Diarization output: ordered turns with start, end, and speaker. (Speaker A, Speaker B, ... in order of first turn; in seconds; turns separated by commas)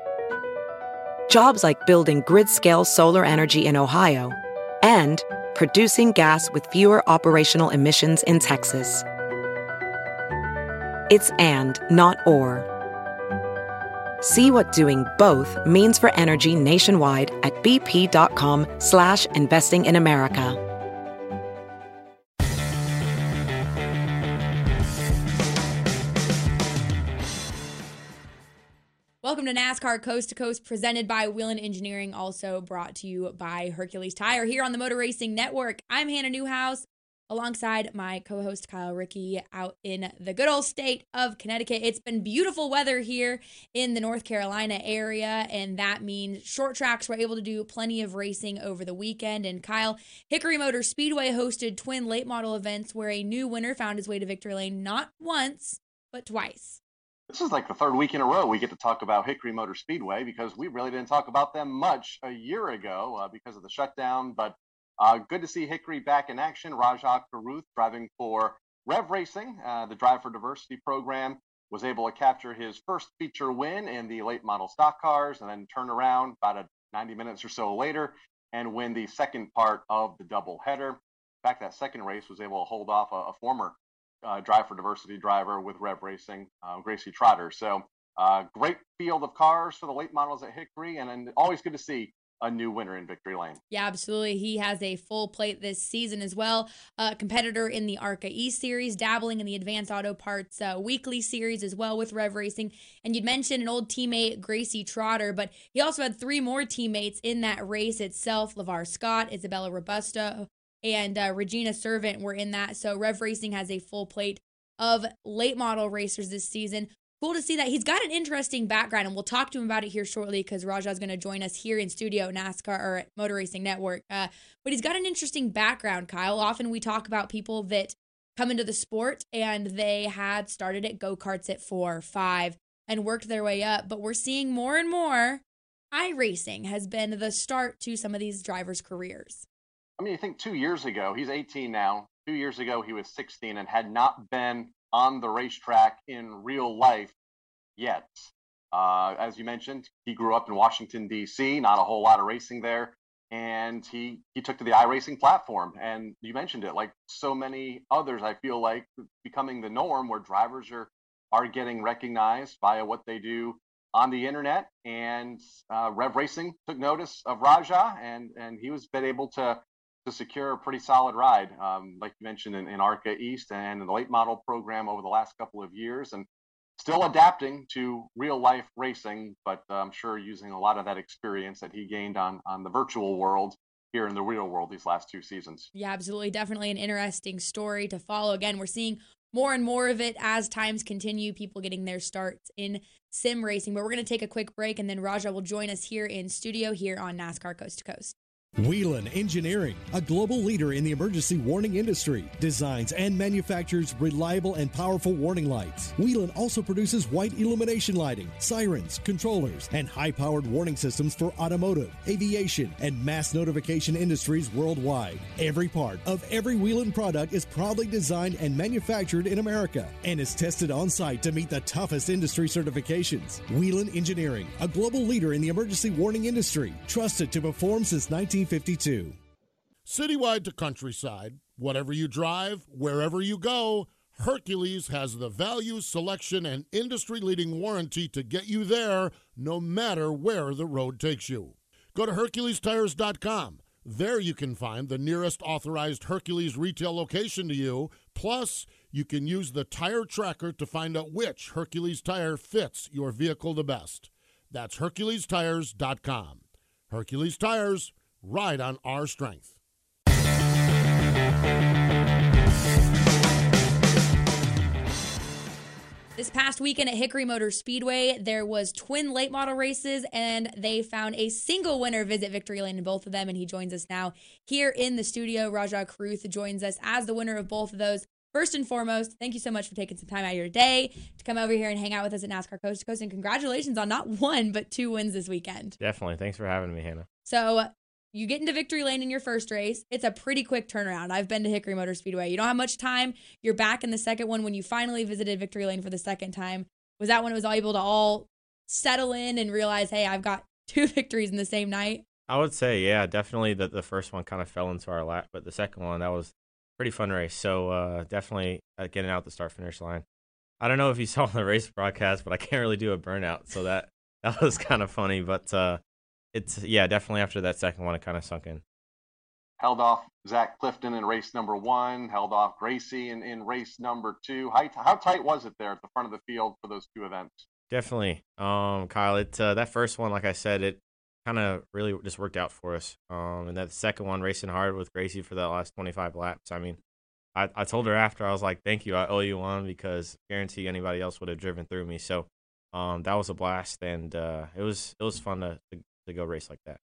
Speaker A: 1.3-9.1, Speaker A: 11.1-12.7, Speaker A: 14.2-20.6, Speaker B: 29.2-56.8, Speaker C: 57.3-93.6, Speaker B: 93.7-139.4, Speaker C: 140.0-147.1, Speaker C: 147.8-176.3, Speaker C: 176.8-185.7, Speaker B: 185.7-198.2, Speaker D: 198.6-229.2, Speaker E: 229.9-259.6, Speaker B: 266.2-285.8, Speaker F: 285.8-287.1, Speaker B: 287.3-302.0, Speaker F: 302.3-310.0, Speaker F: 310.6-315.8, Speaker F: 316.3-318.6, Speaker C: 319.6-327.5, Speaker F: 327.7-336.8, Speaker F: 337.4-346.8